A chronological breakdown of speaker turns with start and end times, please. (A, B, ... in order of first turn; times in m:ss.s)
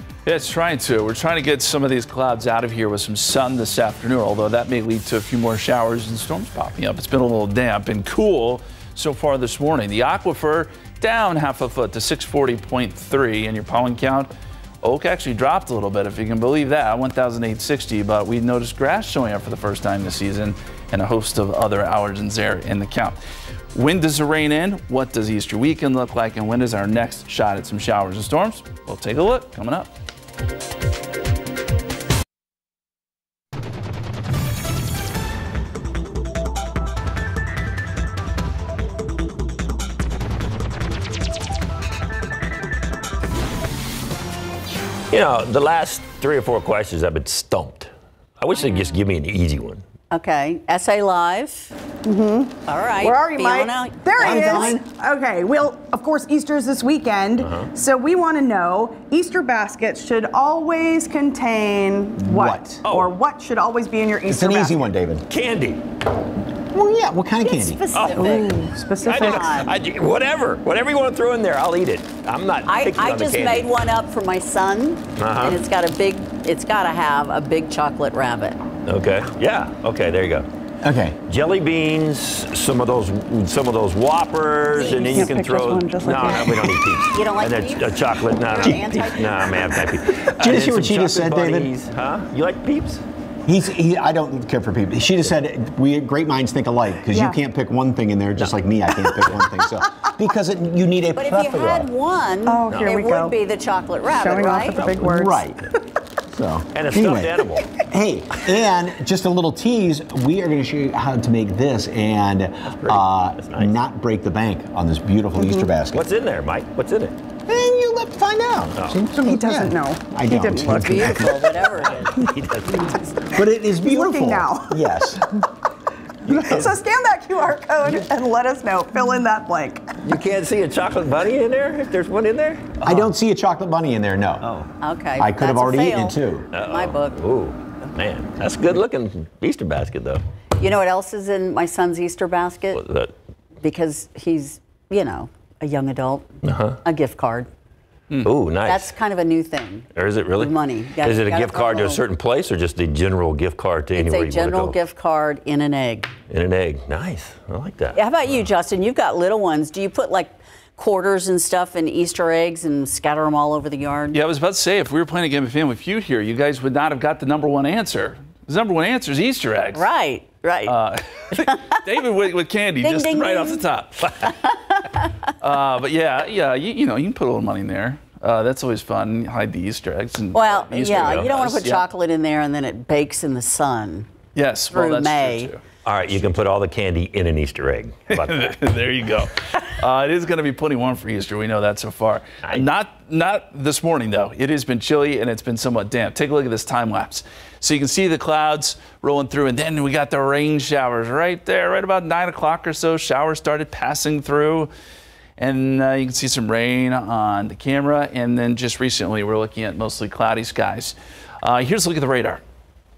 0:00.2-0:14.3 A
0:14.8-0:23.2 A
0:23.7-0:29.9 A
0:45.1-0:49.8 B
0:50.1-0:51.7 C
0:52.0-1:04.8 D
0:52.7-0:54.8 C
0:54.2-0:54.8 E
0:57.4-0:57.7 B
1:02.2-1:03.0 E
1:04.3-1:05.2 E
1:05.3-1:05.8 B
1:06.7-1:08.6 E
1:07.4-1:09.7 C
1:08.0-1:08.3 B
1:08.2-1:09.6 D
1:09.0-1:13.7 B
1:12.6-1:18.6 C
1:15.2-1:15.6 B
1:18.8-1:20.5 B
1:20.8-1:21.2 E
1:21.2-1:33.0 B
1:24.8-1:26.8 D
1:24.8-1:25.2 C
1:27.1-1:29.5 C
1:30.3-1:31.7 E
1:33.4-1:41.9 E
1:37.1-1:37.4 D
1:41.2-1:44.8 C
1:42.4-1:43.3 D
1:44.2-1:45.4 D
1:44.8-1:45.6 E
1:46.3-1:56.0 E
1:46.7-1:47.7 B
1:52.7-1:53.7 B
1:55.4-1:55.7 D
1:55.9-1:57.2 B
1:57.5-2:01.7 E
1:59.2-2:01.2 D
2:00.6-2:02.2 C
2:01.8-2:03.0 B
2:03.3-2:05.3 E
2:03.8-2:04.8 D
2:06.2-2:06.6 B
2:06.3-2:10.0 D
2:10.0-2:13.1 B
2:12.8-2:14.5 E
2:14.4-2:14.7 B
2:14.8-2:17.2 C
2:15.2-2:16.5 E
2:16.5-2:20.2 B
2:20.6-2:22.8 C
2:22.7-2:23.1 B
2:23.6-2:26.3 C
2:26.4-2:26.8 B
2:26.8-2:27.5 C
2:28.2-2:28.9 B
2:28.6-2:32.0 C
2:29.9-2:34.8 B
2:34.0-2:36.1 C
2:36.3-2:38.0 B
2:37.9-2:44.2 C
2:44.1-2:49.9 A
2:49.7-2:50.7 C
2:50.6-2:54.1 A
2:51.4-2:51.8 C
2:52.8-2:53.6 C
2:54.5-2:54.9 C
2:55.4-3:01.8 A
3:00.3-3:04.1 C
3:00.8-3:01.3 B
3:04.3-3:05.6 A
3:04.7-3:05.5 C
3:05.8-3:08.5 B
3:08.1-3:24.7 A
3:25.4-3:32.4 A